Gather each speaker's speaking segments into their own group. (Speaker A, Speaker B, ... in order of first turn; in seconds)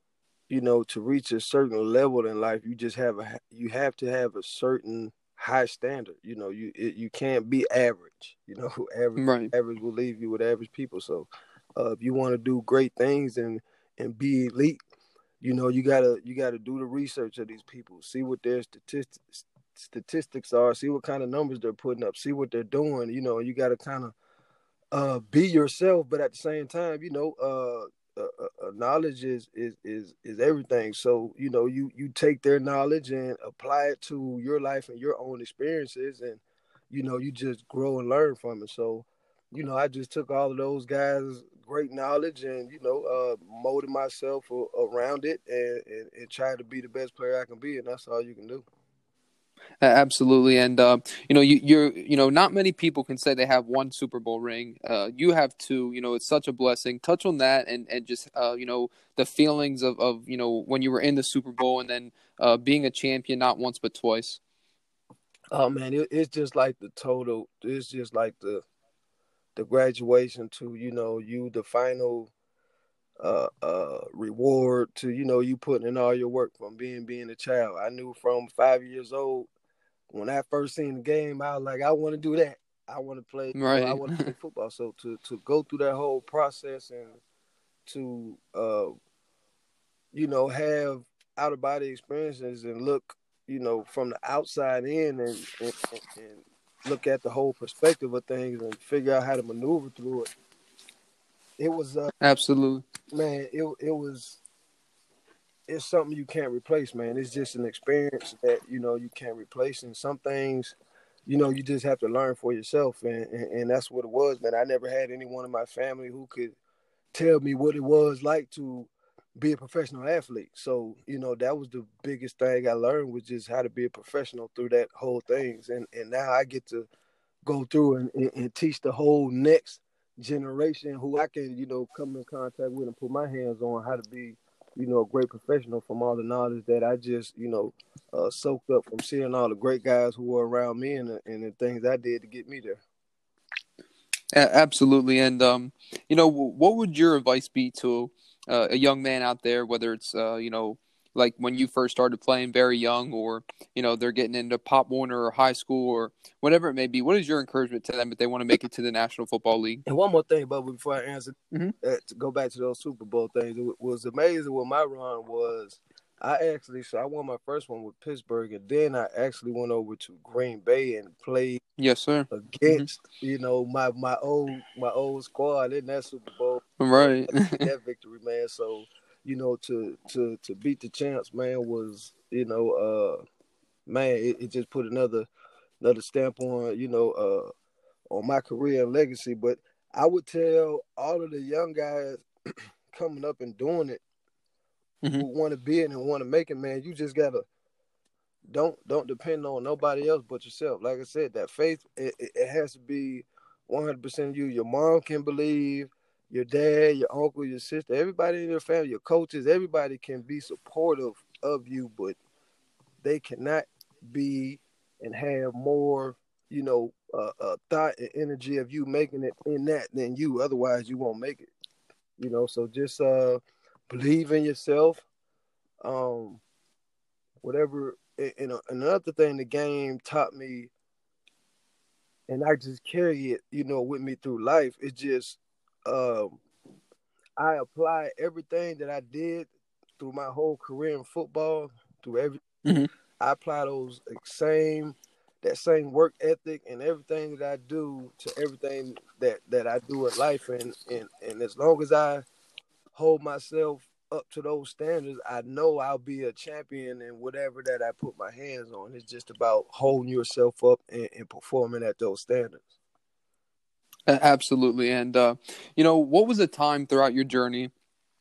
Speaker A: 0.5-14.8, 15.4-24.1, 24.9-48.6, 65.5-68.6, 69.5-72.3, 73.2-79.5, 80.1-87.2, 87.9-88.9, 90.1-100.3, 101.6-102.1, 103.1-104.4, 105.7-116.6, 117.1-126.9, 127.4-142.8, 159.9-171.6, 172.3-183.2, 183.9-185.3, 185.8-187.5, 188.1-192.2, 192.9-194.0, 195.2-197.4, 198.5-212.2, 213.0-221.5, 222.2-225.0, 225.8-226.4, 227.4-230.7, 232.3-236.4, 237.4-239.5, 240.0-242.4, 243.2-252.2, 252.9-262.7
Speaker B: 9.2-9.5, 49.8-64.4, 83.5-84.3, 102.2-102.8, 144.3-159.8, 171.8-172.9, 176.8-177.6, 264.1-267.7